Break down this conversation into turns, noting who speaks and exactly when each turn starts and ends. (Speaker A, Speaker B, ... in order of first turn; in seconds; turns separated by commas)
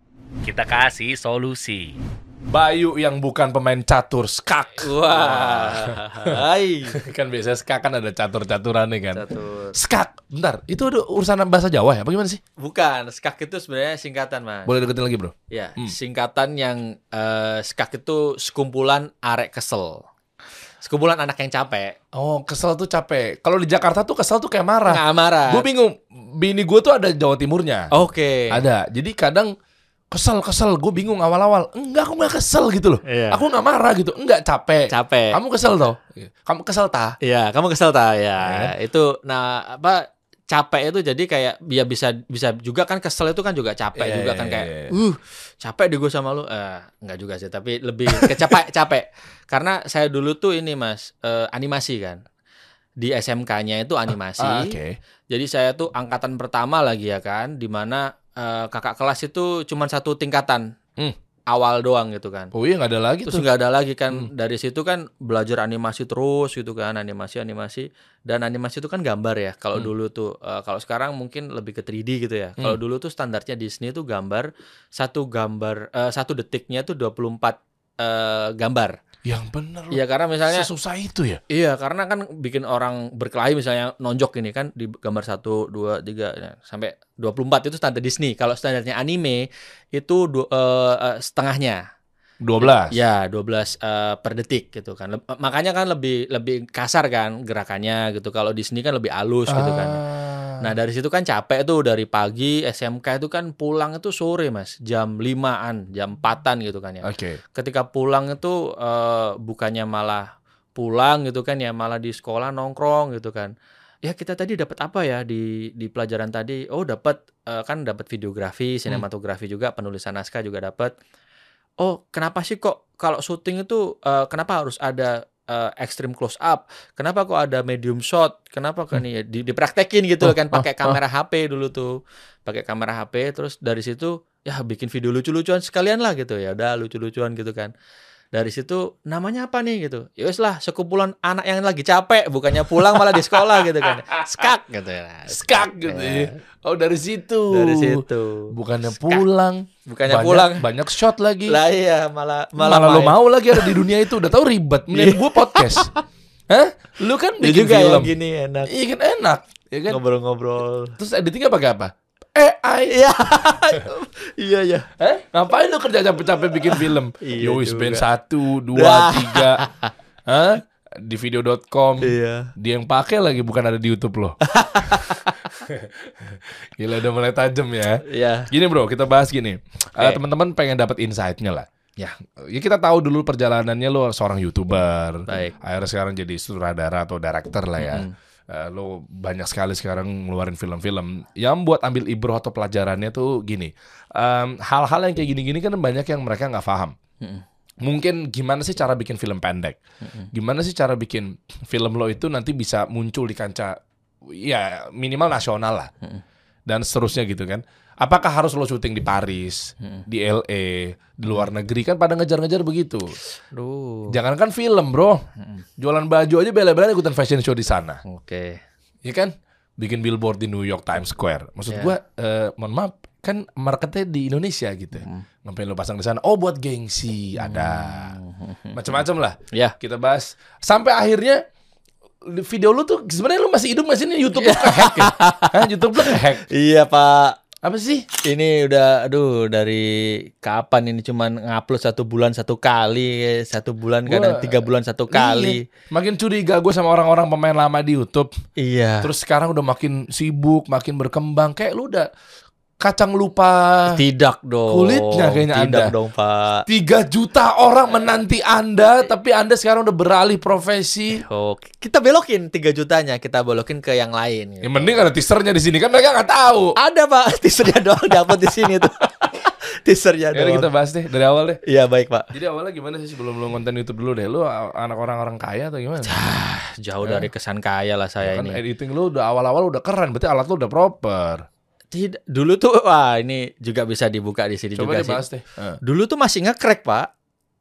Speaker A: 0.5-1.2, Speaker A: 2.5-12.4, Speaker B: 4.8-7.0, Speaker B: 9.1-9.8, Speaker B: 12.6-14.7, Speaker A: 14.7-15.9, Speaker B: 15.5-20.1, Speaker B: 20.8-22.0, Speaker A: 22.1-27.9, Speaker B: 24.9-25.6, Speaker B: 27.9-28.6, Speaker A: 28.5-29.5, Speaker A: 30.1-37.2, Speaker B: 33.0-33.4, Speaker B: 34.9-35.4, Speaker B: 37.2-52.2, Speaker A: 38.4-38.7, Speaker A: 44.0-45.0, Speaker A: 48.1-48.4, Speaker B: 53.0-54.7, Speaker A: 54.4-55.0, Speaker B: 55.3-60.7, Speaker B: 61.5-62.5, Speaker A: 62.5-63.5, Speaker B: 63.3-79.0, Speaker A: 79.2-81.4, Speaker B: 79.9-80.7, Speaker B: 81.5-91.8, Speaker A: 92.4-93.0, Speaker B: 92.6-100.0, Speaker A: 99.5-100.7, Speaker B: 100.6-121.0, Speaker A: 107.0-107.4, Speaker B: 121.8-137.7, Speaker A: 130.3-131.0, Speaker B: 138.3-146.3, Speaker A: 143.0-144.4, Speaker A: 145.3-151.6, Speaker B: 147.5-149.2, Speaker B: 149.9-150.7, Speaker B: 151.5-153.7, Speaker A: 152.6-155.9, Speaker B: 154.9-155.9, Speaker A: 156.5-158.1, Speaker B: 157.4-158.7, Speaker A: 158.7-160.0, Speaker B: 159.9-161.0, Speaker A: 161.0-163.0, Speaker B: 162.9-164.9, Speaker A: 165.0-169.7, Speaker B: 166.7-168.1, Speaker B: 168.7-169.9, Speaker A: 170.3-181.7, Speaker B: 172.0-172.5, Speaker B: 174.4-175.4, Speaker B: 178.1-178.5, Speaker A: 182.4-196.9, Speaker B: 185.3-185.5, Speaker B: 187.8-188.1, Speaker A: 197.8-199.8, Speaker A: 200.3-203.8, Speaker A: 204.3-205.9, Speaker A: 206.7-213.2, Speaker B: 213.3-214.1, Speaker A: 214.1-215.2, Speaker B: 215.4-215.6, Speaker A: 215.8-218.0, Speaker B: 218.1-218.6, Speaker A: 219.1-228.2, Speaker B: 227.4-229.0, Speaker A: 228.7-231.4, Speaker A: 232.3-236.5, Speaker B: 234.4-237.4, Speaker A: 237.6-238.1, Speaker B: 238.2-245.6, Speaker A: 244.1-244.6, Speaker A: 245.1-248.3, Speaker B: 248.6-249.1, Speaker A: 249.0-252.1, Speaker A: 252.8-254.0, Speaker B: 253.9-256.6, Speaker A: 254.7-255.9, Speaker A: 256.7-261.2, Speaker B: 261.2-265.0, Speaker A: 264.6-266.8, Speaker B: 266.8-270.7, Speaker A: 270.3-271.6, Speaker B: 271.6-272.3, Speaker A: 272.3-276.1, Speaker B: 276.1-278.6, Speaker A: 277.0-277.3, Speaker A: 278.2-281.5, Speaker B: 281.9-285.2, Speaker A: 284.8-285.8, Speaker B: 285.8-287.1